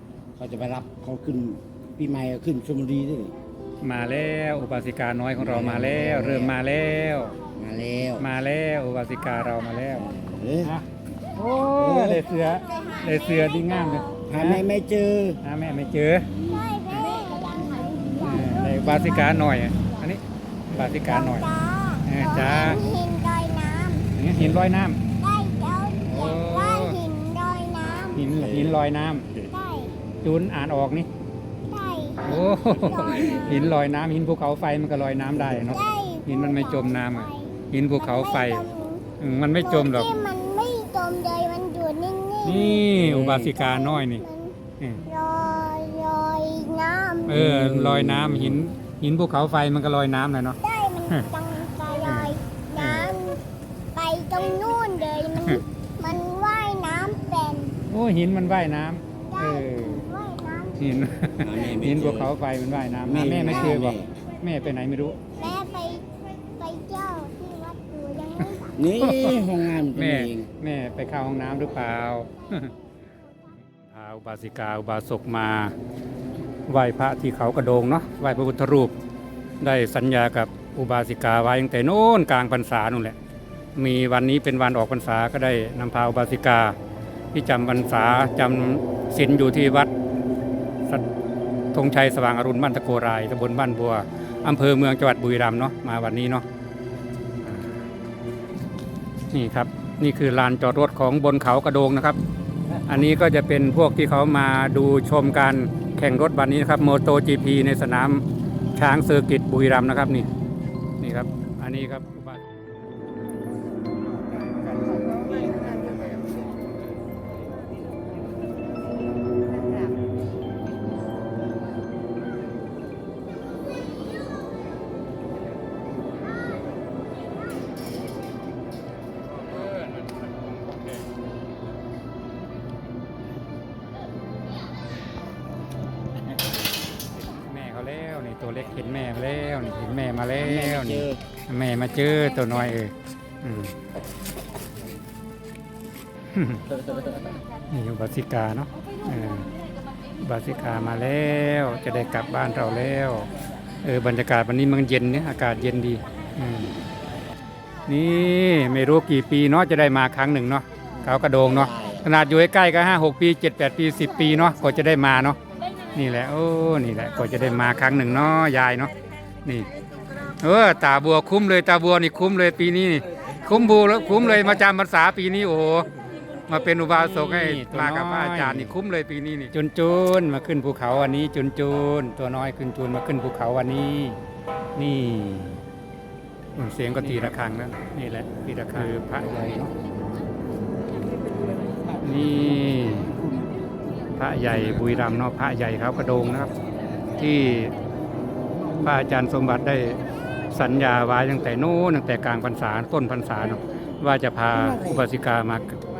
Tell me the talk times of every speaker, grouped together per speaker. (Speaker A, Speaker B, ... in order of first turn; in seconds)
Speaker A: 0.4-3.3, 5.4-6.6, 7.5-8.3, 10.0-10.7, 11.7-12.2, 14.3-15.4, 24.4-24.6, 28.2-28.8, 32.6-33.7, 43.0-43.5, 47.3-48.6, 61.4-62.3, 63.0-64.1, 68.8-70.5, 140.4-141.2, 161.0-162.1, 177.2-178.8
Speaker B: 3.8-7.4, 8.2-14.7, 15.4-16.3, 18.2-21.5, 22.1-22.8, 24.2-25.0, 26.1-27.0, 28.1-29.3, 30.2-31.1, 32.2-38.6, 39.2-40.1, 42.4-44.2, 44.8-45.1, 47.3-50.6, 52.0-53.1, 57.9-60.0, 60.8-65.3, 69.0-72.7, 73.7-75.7, 76.7-78.9, 79.6-83.2, 83.8-86.8, 87.3-89.9, 91.7-96.5, 99.3-102.2, 102.9-108.2, 108.8-110.3, 111.0-112.7, 137.2-143.8, 146.3-146.7, 147.7-149.5, 150.2-153.3, 153.8-156.8, 157.9-165.4, 165.9-168.9, 170.4-175.9, 176.8-178.8, 179.3-184.2, 184.8-185.6, 186.6-189.7, 192.0-193.2, 194.2-196.5, 197.2-197.7, 198.8-205.8
Speaker C: 12.3-14.2, 16.4-20.0, 20.9-24.1, 25.2-28.3, 29.5-30.0, 31.7-33.3, 35.6-39.0, 39.6-42.9, 43.5-47.4, 50.6-53.4, 54.0-57.8, 59.3-60.8, 65.4-68.8